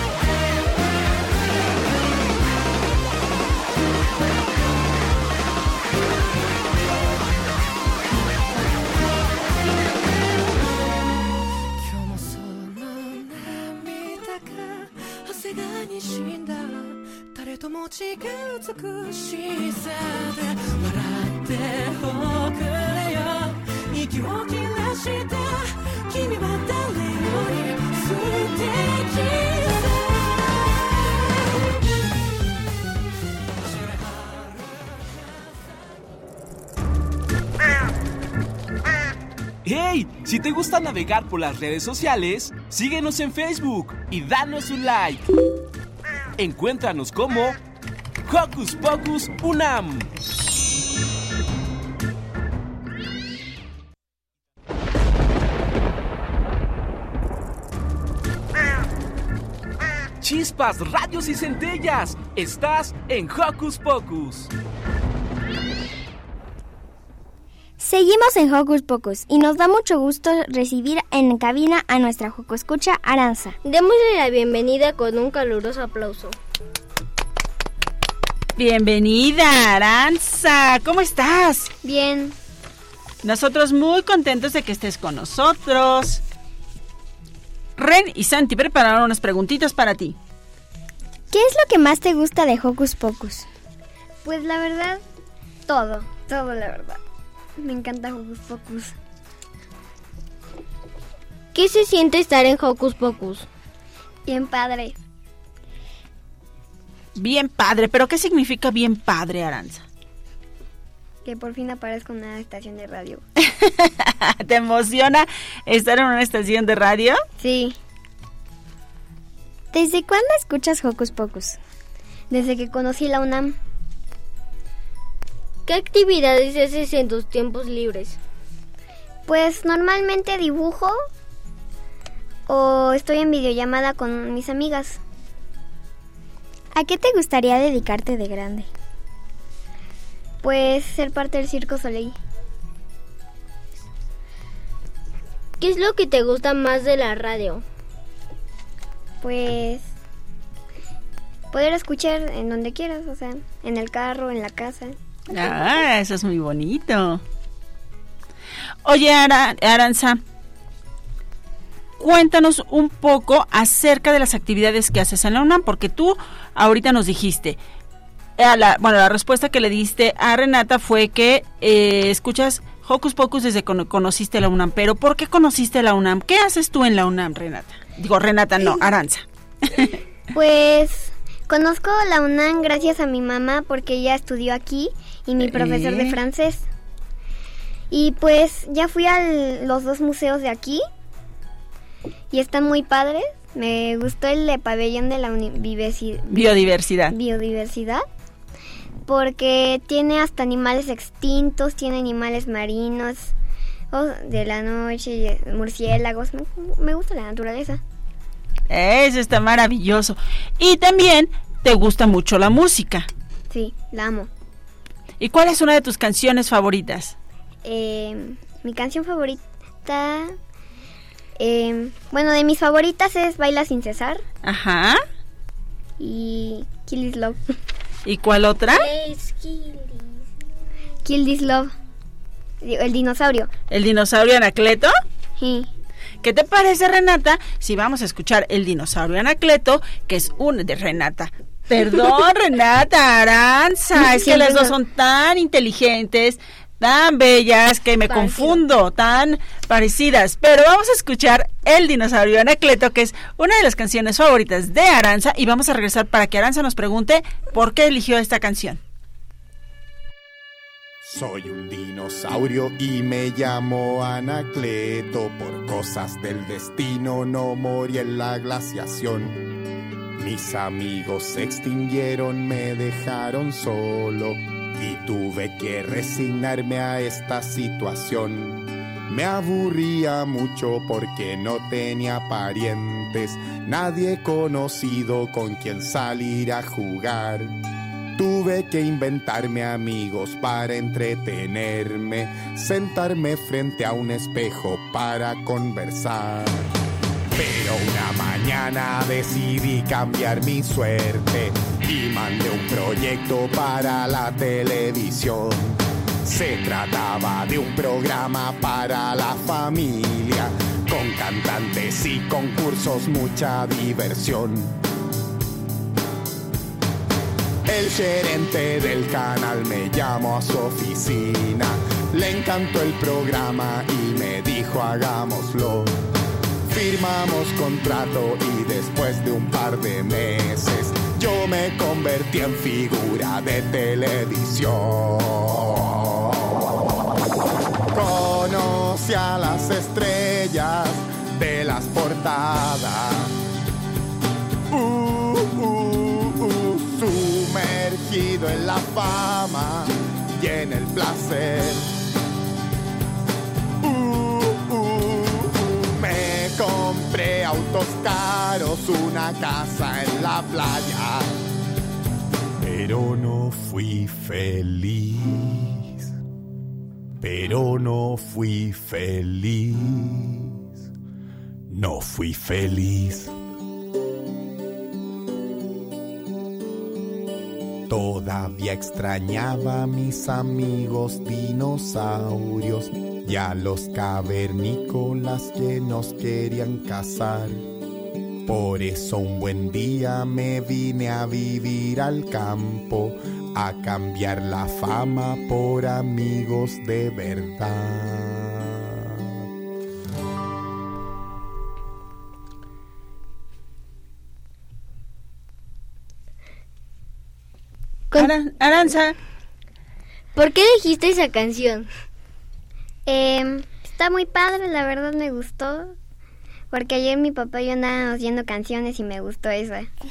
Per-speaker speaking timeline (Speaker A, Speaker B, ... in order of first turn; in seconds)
Speaker A: 11.8-30.7, 33.7-34.8
Speaker B: 39.6-45.3, 46.4-47.6, 48.3-50.1, 60.2-64.5
Speaker C: 67.8-73.6, 91.3-93.5, 119.7-121.6, 136.8-138.7
Speaker D: 73.6-76.4, 101.5-103.5, 125.7-128.2, 145.6-147.6, 228.8-230.1, 248.1-248.6, 410.4-411.9
Speaker E: 78.6-81.7, 83.2-86.2, 87.8-90.2, 107.2-109.8, 113.4-117.2, 155.3-157.2, 158.8-160.2, 162.0-167.6, 168.4-179.9, 185.4-186.2, 196.3-197.2, 208.7-213.1, 215.2-217.2, 224.4-225.0, 228.1-228.9, 233.7-234.9, 236.2-258.8, 408.1-409.2
Speaker F: 81.8-82.3, 94.2-95.0, 95.7-97.0, 97.6-99.0, 104.3-105.0, 111.2-113.2, 117.4-117.8, 122.3-123.6, 129.3-131.0, 132.5-135.0, 140.4-142.2, 149.2-149.9, 151.5-155.0, 178.6-178.9, 180.3-186.7, 187.9-190.8, 192.3-196.4, 197.1-198.1, 199.1-203.3, 203.9-207.8, 213.5-214.3, 217.7-220.4, 221.4-224.2, 226.0-227.4, 231.0-231.7, 232.6-233.5, 235.4-235.7, 244.0-244.7, 413.1-415.9, 416.7-419.9
Speaker G: 261.0-269.4, 270.2-287.5, 288.1-296.6, 297.3-314.7, 317.7-325.9, 326.7-336.6, 337.9-343.3, 344.7-351.9, 353.8-361.3, 362.6-366.1, 367.2-370.6, 371.7-373.3, 377.9-387.6, 388.5-398.9